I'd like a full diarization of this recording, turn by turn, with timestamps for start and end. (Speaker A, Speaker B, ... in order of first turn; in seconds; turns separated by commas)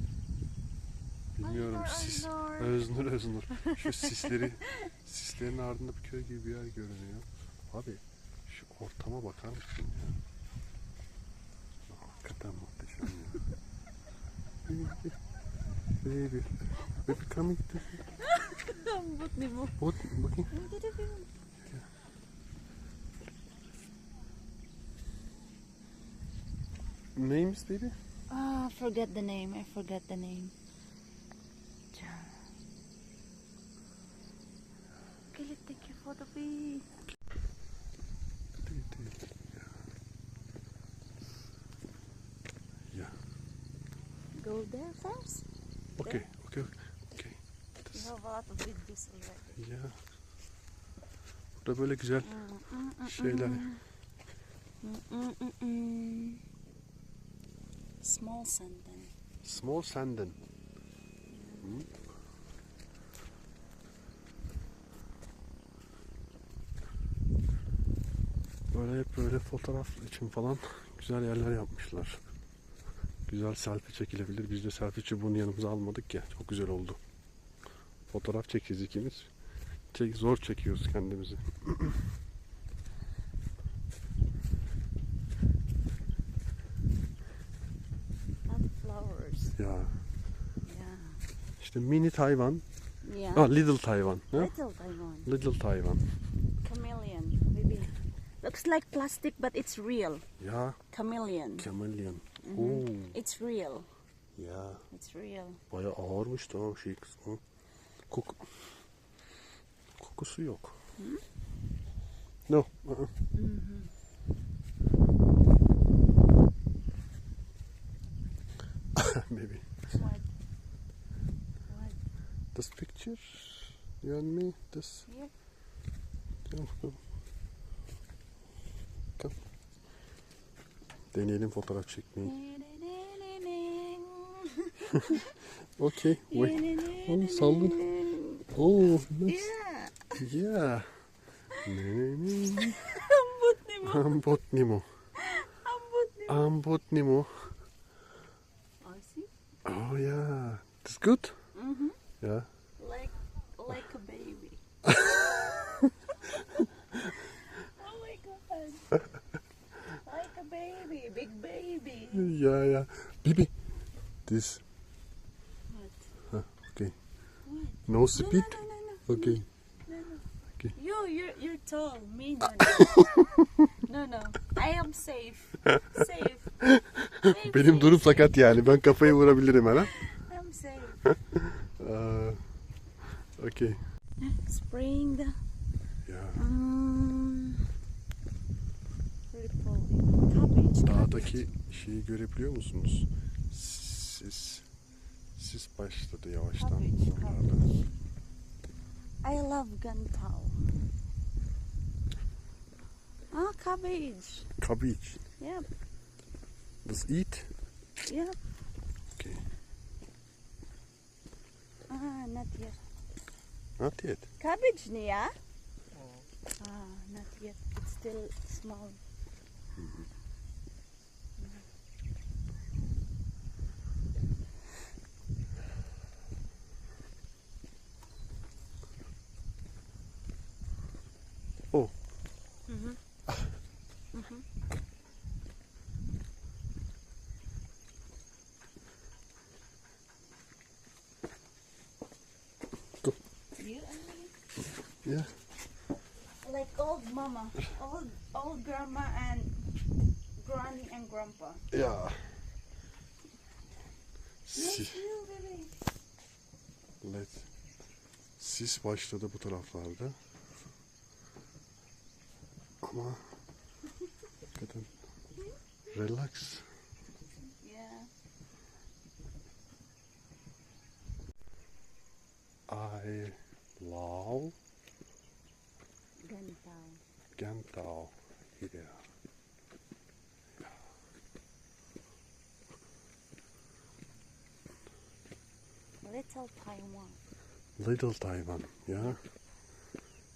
Speaker A: 1.4-10.2, Speaker B: 1.4-2.8, Speaker B: 4.0-4.5, Speaker A: 11.9-13.5, Speaker A: 14.7-15.2, Speaker A: 16.0-18.0, Speaker B: 18.4-19.9, Speaker A: 19.8-20.5, Speaker B: 20.5-21.3, Speaker A: 27.2-27.9, Speaker B: 28.3-30.5, Speaker B: 31.9-32.3, Speaker B: 35.3-36.9, Speaker A: 38.7-39.7, Speaker B: 44.4-45.5, Speaker A: 46.0-47.4, Speaker B: 47.9-49.6, Speaker A: 49.6-50.0, Speaker A: 51.6-52.4, Speaker B: 52.2-53.8, Speaker A: 53.0-53.7, Speaker B: 54.8-56.4, Speaker B: 58.0-59.1, Speaker A: 59.4-60.4, Speaker B: 61.3-61.8, Speaker A: 61.6-61.9, Speaker A: 68.7-72.2, Speaker A: 73.3-77.0, Speaker A: 78.1-79.3, Speaker A: 79.9-82.0, Speaker B: 88.5-89.5, Speaker A: 89.6-90.0, Speaker B: 90.6-91.2, Speaker A: 91.6-92.7, Speaker B: 93.0-93.5, Speaker A: 93.3-94.5, Speaker B: 94.3-95.3, Speaker A: 95.2-96.0, Speaker B: 96.6-100.2, Speaker A: 100.4-100.8, Speaker B: 100.9-101.7, Speaker A: 101.6-103.2, Speaker B: 102.4-103.9, Speaker A: 104.4-104.8, Speaker B: 104.9-105.6, Speaker A: 105.7-107.4, Speaker A: 108.1-108.7, Speaker A: 110.0-110.8, Speaker B: 111.0-111.2, Speaker A: 112.5-113.1, Speaker B: 113.3-113.9, Speaker A: 119.0-119.7, Speaker B: 119.9-120.3, Speaker B: 121.7-122.0, Speaker A: 122.5-125.1, Speaker A: 126.5-127.0, Speaker A: 131.1-132.3, Speaker B: 132.2-135.3, Speaker A: 134.9-135.2, Speaker A: 135.7-137.8, Speaker B: 136.3-138.5, Speaker A: 138.5-139.5, Speaker B: 139.2-140.2, Speaker A: 140.2-141.0, Speaker A: 141.6-142.8, Speaker B: 142.8-144.2, Speaker A: 143.8-144.9, Speaker B: 145.2-146.5, Speaker A: 146.3-147.5, Speaker B: 148.8-149.3, Speaker A: 149.7-151.4, Speaker B: 151.6-152.0, Speaker A: 152.2-152.5, Speaker B: 152.8-154.6, Speaker B: 157.3-158.9, Speaker B: 159.8-162.3, Speaker A: 162.1-163.5, Speaker A: 164.3-164.6, Speaker B: 165.7-166.0, Speaker A: 166.3-166.9, Speaker B: 167.5-170.2, Speaker A: 167.9-169.4, Speaker B: 170.7-176.6, Speaker A: 172.7-173.2, Speaker A: 176.6-179.9, Speaker B: 177.2-178.3, Speaker B: 179.8-181.0, Speaker A: 181.3-182.5, Speaker A: 183.2-183.8, Speaker B: 184.2-185.4, Speaker A: 186.1-186.5, Speaker B: 186.3-187.6, Speaker B: 189.3-191.1, Speaker A: 190.8-194.7, Speaker A: 195.3-197.8, Speaker B: 196.6-197.6, Speaker B: 199.2-200.8, Speaker B: 203.3-204.5, Speaker A: 204.6-205.2, Speaker B: 205.4-205.7, Speaker A: 206.8-207.5, Speaker B: 208.1-208.4, Speaker A: 209.1-209.4, Speaker B: 211.9-212.8, Speaker A: 213.8-214.3, Speaker B: 214.4-215.4, Speaker B: 216.6-219.0, Speaker A: 219.8-220.1, Speaker B: 221.4-221.6, Speaker B: 232.7-233.0, Speaker B: 234.1-234.4, Speaker B: 243.6-244.3, Speaker A: 245.0-245.3, Speaker B: 246.4-249.6, Speaker B: 250.4-251.7, Speaker A: 251.7-252.4, Speaker A: 254.5-255.0, Speaker B: 254.5-255.8, Speaker A: 257.0-257.5, Speaker A: 258.4-260.2, Speaker A: 262.8-263.2, Speaker A: 264.5-264.9, Speaker A: 265.9-266.7, Speaker B: 267.6-268.1, Speaker A: 272.7-274.6, Speaker B: 276.2-277.0, Speaker A: 277.4-279.0, Speaker B: 286.0-287.2, Speaker A: 287.8-289.2